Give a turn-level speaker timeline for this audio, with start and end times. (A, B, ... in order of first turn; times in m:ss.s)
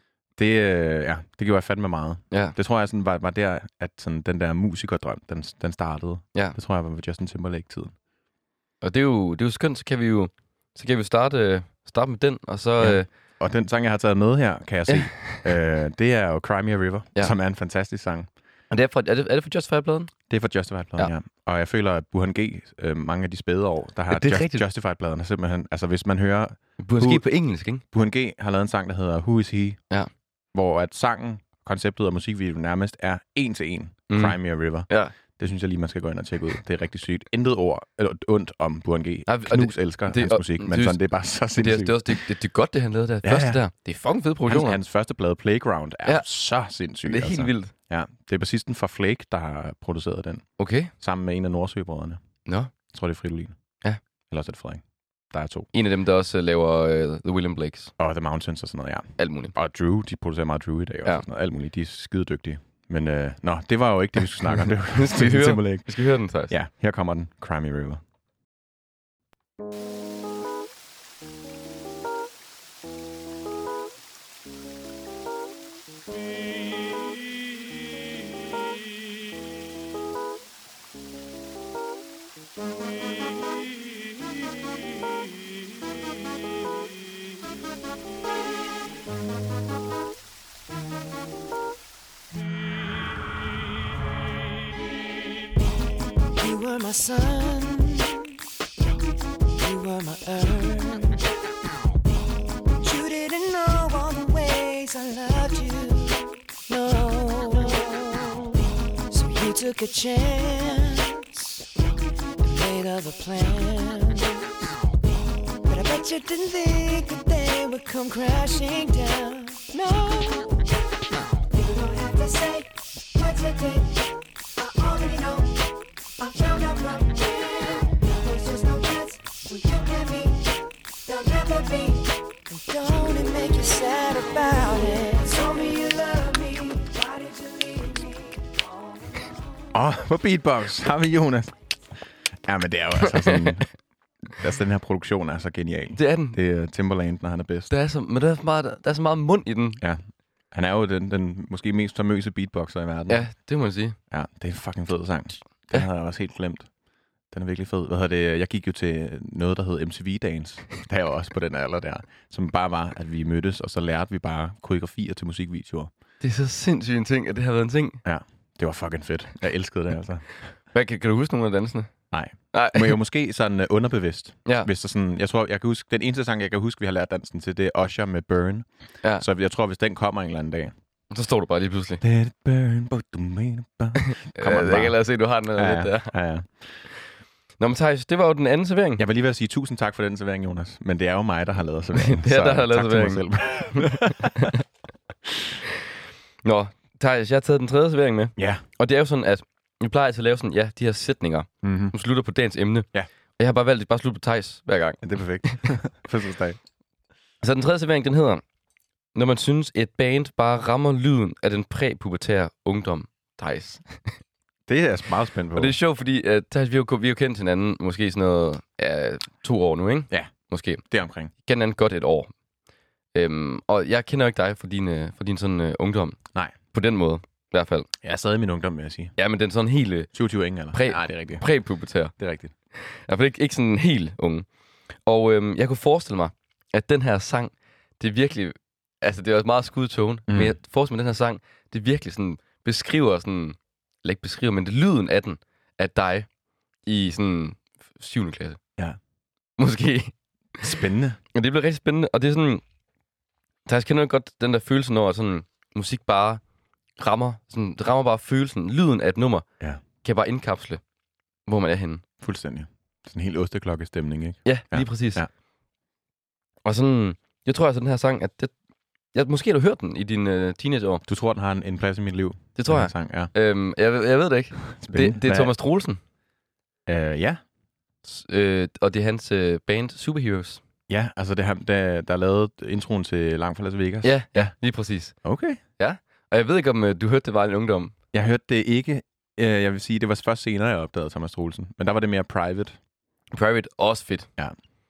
0:00.4-0:07.9 A
0:02.3-0:02.6 B
0:08.8-0:13.1 B
0:12.8-0:18.3 A
0:14.9-0:15.5 B
0:18.7-0:20.1 B
0:20.3-0:27.2 A
0:24.1-0:24.6 B
0:26.8-0:27.8 B
0:27.8-0:29.8 A
0:30.5-0:42.2 A
0:34.1-0:35.1 B
0:39.3-0:44.8 B
0:43.2-0:43.6 A
0:44.4-0:50.4 A
0:47.0-0:47.7 B
0:50.6-0:50.9 B
0:51.0-0:52.2 A
0:52.4-0:52.7 B
0:52.9-0:53.5 A
0:54.3-0:55.7 A
0:55.7-0:57.9 B
0:58.0-1:05.9 A
0:59.2-0:59.5 B
1:04.5-1:06.5 B
1:06.5-1:08.0 A
1:36.4-1:38.3 C
1:39.6-1:41.2 C
1:42.8-1:48.6 C
1:49.1-1:51.6 C
1:52.4-1:54.7 C
1:55.7-2:00.5 C
2:01.5-2:02.6 C
2:03.2-2:03.9 C
2:04.6-2:05.5 C
2:06.2-2:10.4 C
2:11.1-2:18.5 C
2:19.7-2:21.5 A
2:22.4-2:23.7 A
2:23.1-2:23.5 B
2:24.3-2:27.7 A
2:26.0-2:26.4 B
2:27.7-2:29.8 B
2:29.8-2:33.3 A
2:33.1-2:34.0 B
2:34.1-2:36.7 A
2:37.3-2:45.9 A
2:46.2-2:48.0 B
2:48.0-2:50.3 A
2:50.7-2:51.9 B
2:52.1-3:00.7 A
2:52.5-2:53.0 B
3:01.1-3:02.0 B
3:02.0-3:05.0 A
3:04.3-3:06.1 B
3:05.6-3:06.8 A
3:07.6-3:09.0 B
3:09.0-3:14.5 A
3:11.9-3:14.5 B
3:16.4-3:22.9 B
3:18.4-3:18.6 A
3:21.6-3:21.9 A
3:23.4-3:25.5 B
3:25.0-3:26.6 A
3:27.4-3:28.4 B
3:29.1-3:34.1 B
3:34.7-3:35.8 A
3:35.5-3:40.8 B
3:40.9-3:41.3 A
3:41.4-3:42.3 B
3:43.1-3:46.2 B
3:46.7-3:47.9 B
3:48.0-3:49.1 A
3:49.2-3:50.1 B
3:50.1-3:51.4 A
3:50.7-3:52.1 B
3:52.2-3:52.5 A
3:52.8-3:54.4 B
3:55.0-4:06.3 B
4:00.3-4:00.6 A
4:06.8-4:08.6 B
4:09.6-4:10.1 B
4:10.6-4:11.2 A
4:11.3-4:12.6 B
4:13.6-4:16.4 B
4:17.0-4:19.4 B
4:20.0-4:20.8 B
4:21.5-4:22.0 B
4:22.2-4:25.3 A
4:24.4-4:25.2 B
4:26.6-4:28.5 B
4:29.1-4:31.0 B
4:31.0-4:33.3 A
4:32.6-4:36.0 B
4:34.7-4:35.5 A
4:36.9-4:37.4 A
4:38.0-4:40.6 B
4:40.9-4:44.5 A
4:44.0-4:45.1 B
4:45.2-4:45.6 A
4:45.8-4:47.9 B
4:48.1-4:52.8 A
4:53.3-4:54.3 B